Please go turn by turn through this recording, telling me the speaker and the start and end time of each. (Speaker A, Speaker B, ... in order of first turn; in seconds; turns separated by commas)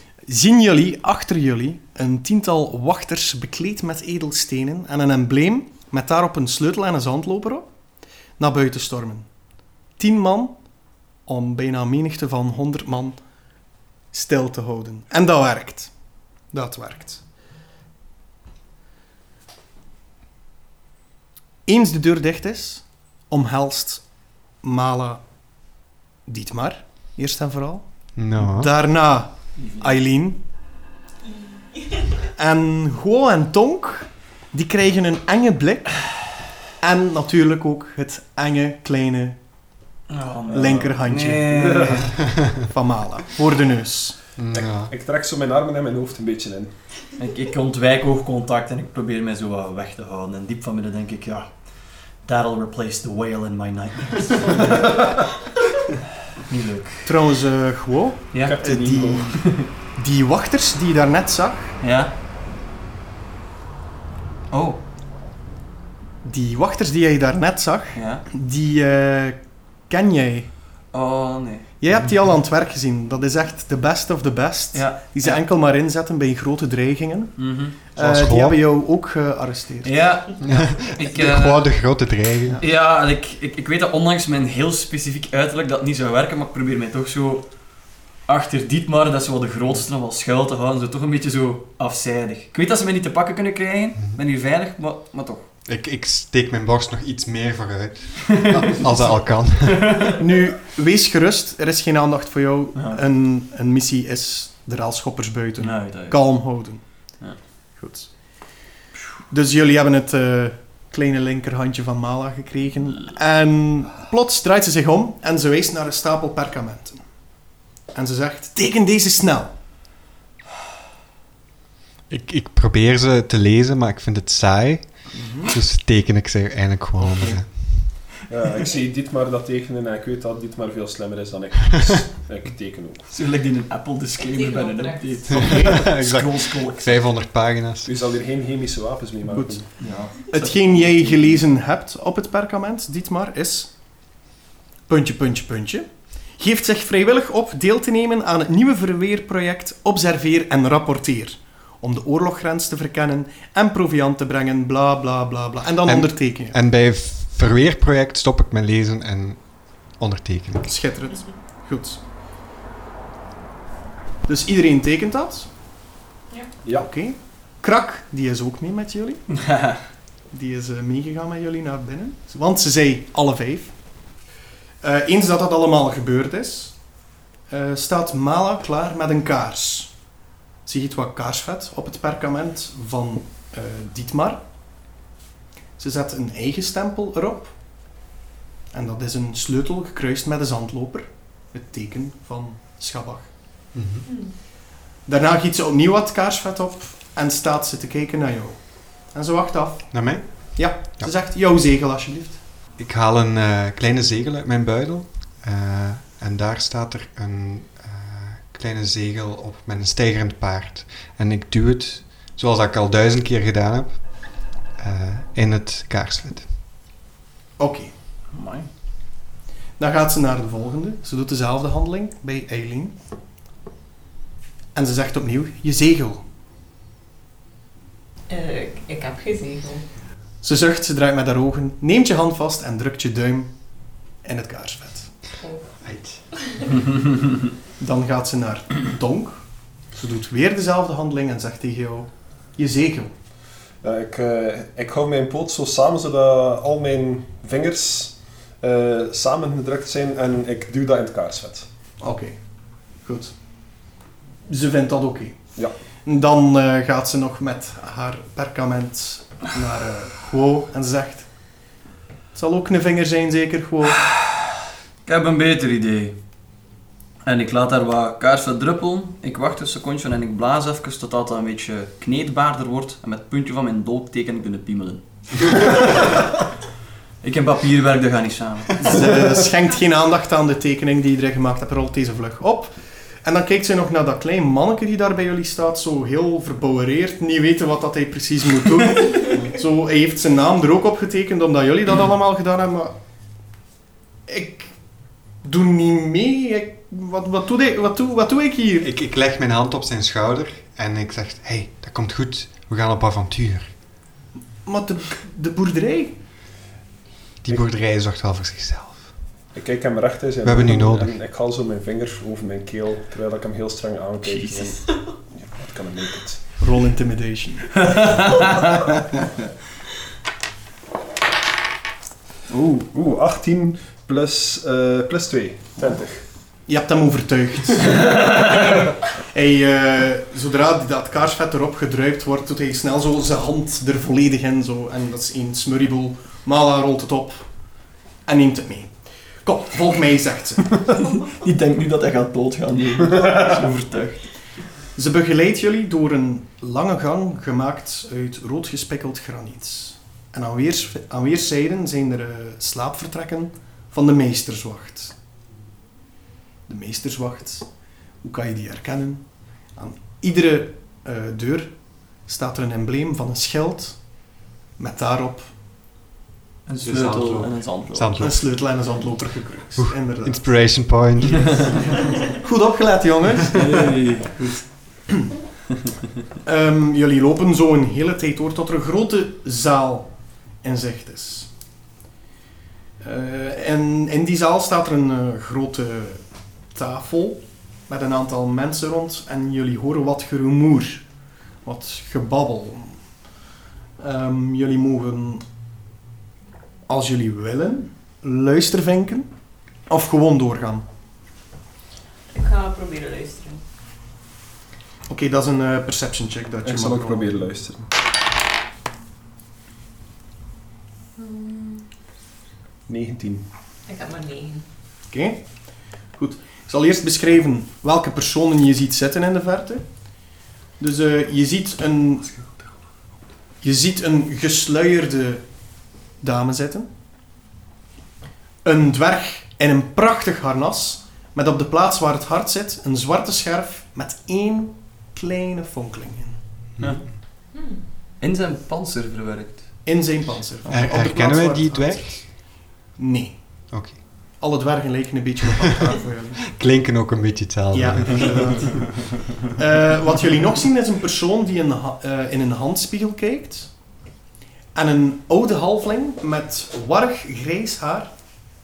Speaker A: 0.3-7.7, Speaker A: 8.4-9.3, Speaker A: 10.0-10.6, Speaker A: 11.3-13.2, Speaker A: 14.1-15.9, Speaker A: 16.5-17.2, Speaker A: 21.7-24.1, Speaker A: 24.6-25.2, Speaker A: 26.3-30.4, Speaker B: 28.2-28.7, Speaker C: 29.6-29.9, Speaker A: 32.4-36.0, Speaker A: 36.8-39.4, Speaker C: 40.1-42.1, Speaker A: 40.5-42.0, Speaker D: 41.5-42.1, Speaker A: 42.6-44.2, Speaker B: 44.4-44.9, Speaker D: 44.5-46.7, Speaker C: 47.2-51.5, Speaker C: 52.2-55.0, Speaker C: 56.5-57.1, Speaker A: 57.0-61.8, Speaker D: 58.4-59.7, Speaker C: 61.8-62.1, Speaker C: 64.5-64.8, Speaker A: 66.2-70.5, Speaker C: 68.0-68.2, Speaker C: 70.9-71.7, Speaker A: 71.8-80.0, Speaker C: 74.7-75.4, Speaker C: 77.4-77.8, Speaker B: 78.0-78.6, Speaker C: 79.8-81.7, Speaker B: 80.4-82.6, Speaker C: 82.6-87.5, Speaker C: 88.3-95.5, Speaker B: 95.7-100.1, Speaker A: 100.2-106.8, Speaker C: 102.8-103.0, Speaker C: 105.6-106.3, Speaker A: 107.8-108.1, Speaker A: 109.3-117.0, Speaker A: 117.9-119.5, Speaker B: 122.1-127.9, Speaker A: 125.1-125.5, Speaker D: 128.3-133.1, Speaker C: 133.1-136.9, Speaker E: 134.3-135.2, Speaker B: 135.3-137.9, Speaker D: 137.8-139.7, Speaker A: 139.3-143.7, Speaker C: 139.8-140.8, Speaker A: 144.9-156.6, Speaker B: 155.9-159.4, Speaker B: 160.0-160.7, Speaker A: 160.6-162.0, Speaker A: 164.3-165.5, Speaker A: 166.8-169.2, Speaker C: 169.4-169.8, Speaker A: 170.3-173.8, Speaker A: 174.8-176.8, Speaker A: 177.5-179.9, Speaker A: 180.7-184.4, Speaker A: 185.8-187.6, Speaker A: 188.7-193.3, Speaker B: 193.7-194.1, Speaker A: 195.1-202.4, Speaker B: 199.9-201.1, Speaker B: 202.8-216.5, Speaker A: 217.6-217.9, Speaker C: 218.3-218.7, Speaker A: 219.8-222.9, Speaker A: 224.8-226.2, Speaker E: 228.3-229.8, Speaker A: 230.4-233.5, Speaker A: 234.2-235.1, Speaker E: 235.4-235.7, Speaker B: 235.8-236.2, Speaker A: 237.8-239.4, Speaker A: 239.9-243.1, Speaker D: 243.8-251.7, Speaker A: 252.0-252.4, Speaker A: 253.0-253.3, Speaker A: 254.5-255.4, Speaker A: 256.1-261.3, Speaker A: 262.4-264.0, Speaker C: 264.0-264.5, Speaker C: 265.1-266.2, Speaker C: 267.3-276.1, Speaker C: 277.2-279.3, Speaker A: 278.8-292.9, Speaker A: 294.3-294.7, Speaker A: 295.4-298.9, Speaker B: 298.8-303.7, Speaker A: 304.6-306.1, Speaker B: 307.4-309.1, Speaker D: 309.5-316.4, Speaker B: 310.4-311.2, Speaker C: 314.2-314.8, Speaker A: 316.6-318.1, Speaker C: 317.8-318.9, Speaker C: 322.5-322.8, Speaker D: 322.8-326.2, Speaker A: 326.7-328.6, Speaker A: 329.3-337.4, Speaker A: 338.3-338.9, Speaker A: 339.4-340.8, Speaker C: 341.2-344.3, Speaker A: 345.0-355.1, Speaker A: 356.7-357.7, Speaker A: 358.2-359.2, Speaker A: 359.8-361.7, Speaker A: 362.3-364.0, Speaker A: 364.8-365.5, Speaker C: 366.7-368.2, Speaker B: 366.8-368.5, Speaker A: 368.2-370.4, Speaker B: 369.8-371.9, Speaker A: 372.2-373.9, Speaker C: 373.6-374.4, Speaker A: 376.4-380.1, Speaker A: 380.6-381.5, Speaker A: 383.0-391.1, Speaker A: 391.6-393.0, Speaker A: 394.0-395.4, Speaker A: 396.9-399.3, Speaker A: 399.9-400.9, Speaker E: 402.3-403.6, Speaker A: 405.1-407.4, Speaker D: 406.6-407.9, Speaker E: 411.2-411.8, Speaker D: 412.9-413.4, Speaker E: 413.9-414.6, Speaker A: 415.1-415.4, Speaker A: 416.2-419.9, Speaker A: 420.8-422.3, Speaker A: 423.6-425.4, Speaker A: 426.2-426.9, Speaker A: 428.6-436.4, Speaker B: 436.8-437.1, Speaker C: 438.2-439.7, Speaker A: 439.9-442.4, Speaker B: 440.7-442.3, Speaker A: 443.0-443.4, Speaker B: 443.7-444.0, Speaker A: 444.4-446.4, Speaker B: 446.5-449.0, Speaker A: 447.7-453.7, Speaker A: 454.8-458.1